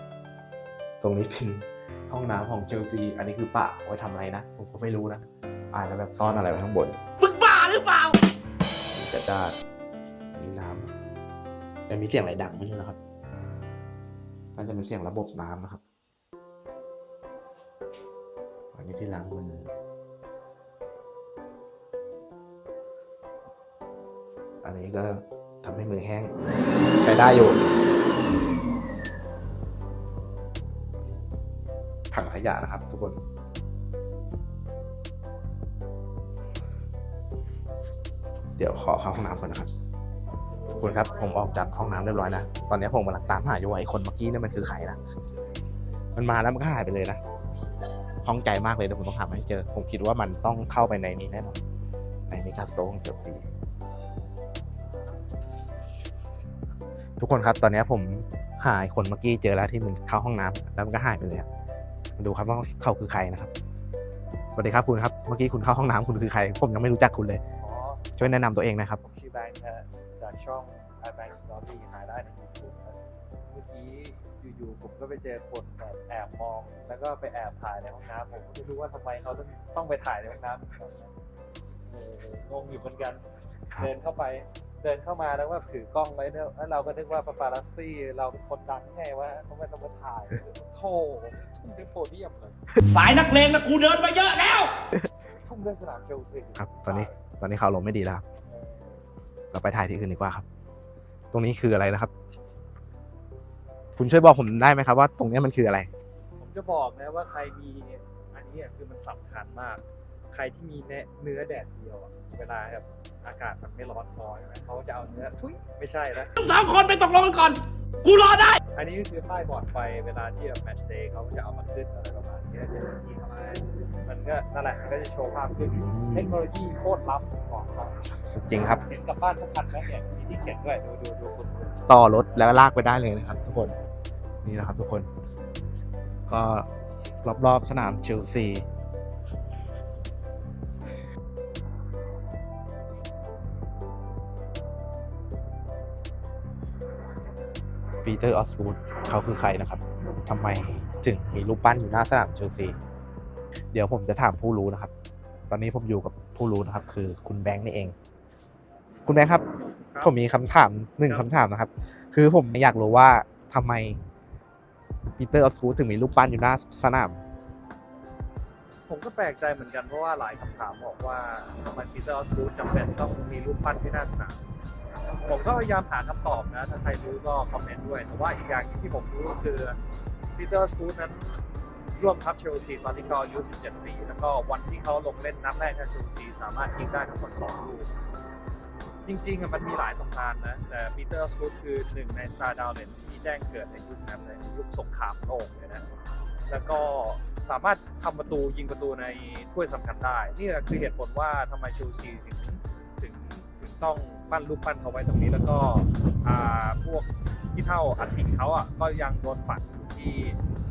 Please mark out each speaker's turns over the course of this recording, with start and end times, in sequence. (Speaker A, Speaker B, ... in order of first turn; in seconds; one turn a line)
Speaker A: 1.0-7.0
Speaker B: 7.2-8.2
Speaker A: 8.9-9.6
Speaker A: 10.3-10.9
Speaker A: 11.9-13.0
Speaker A: 14.6-15.8
Speaker A: 18.7-19.7
Speaker A: 24.6-26.3
Speaker A: 27.0-27.6
Speaker A: 32.1-33.2
Speaker A: 38.6-39.7
Speaker A: 40.8-45.0
Speaker A: 46.1-47.2
Speaker A: 48.2-51.6
Speaker A: 52.3-53.4
Speaker A: 57.2-61.5
Speaker A: 62.2-63.5
Speaker A: 64.5-67.4
Speaker C: 67.6-68.0
Speaker A: 68.2-69.0
Speaker C: 69.0-73.0
Speaker C: 73.5-81.1
Speaker C: 81.9-83.2
Speaker C: 83.8-92.5
Speaker B: 92.8-94.7
Speaker C: 95.4-97.2
Speaker A: 96.5-98.2
Speaker C: 98.5-99.0
Speaker A: 99.5-100.4
Speaker A: 101.3-102.1
Speaker A: 104.0-105.9
Speaker C: 106.4-116.3
Speaker B: 116.3-118.6
Speaker C: 118.7-127.9
Speaker A: 125.6-126.3
Speaker A: 128.3-128.8
Speaker C: 128.6-131.8
Speaker A: 131.9-133.7
Speaker A: 134.4-135.1
Speaker A: 136.3-136.7
Speaker A: 137.2-138.6
Speaker A: 148.0-152.8
Speaker A: 153.7-154.9
Speaker A: 155.5-157.9
Speaker A: 159.0-159.4
Speaker A: 160.0-164.0
Speaker A: 165.2-167.2
Speaker C: 168.9-174.4
Speaker C: 175.2-179.8
Speaker C: 180.3-181.4
Speaker C: 181.9-187.9
Speaker C: 189.0-195.8
Speaker C: 196.5-210.4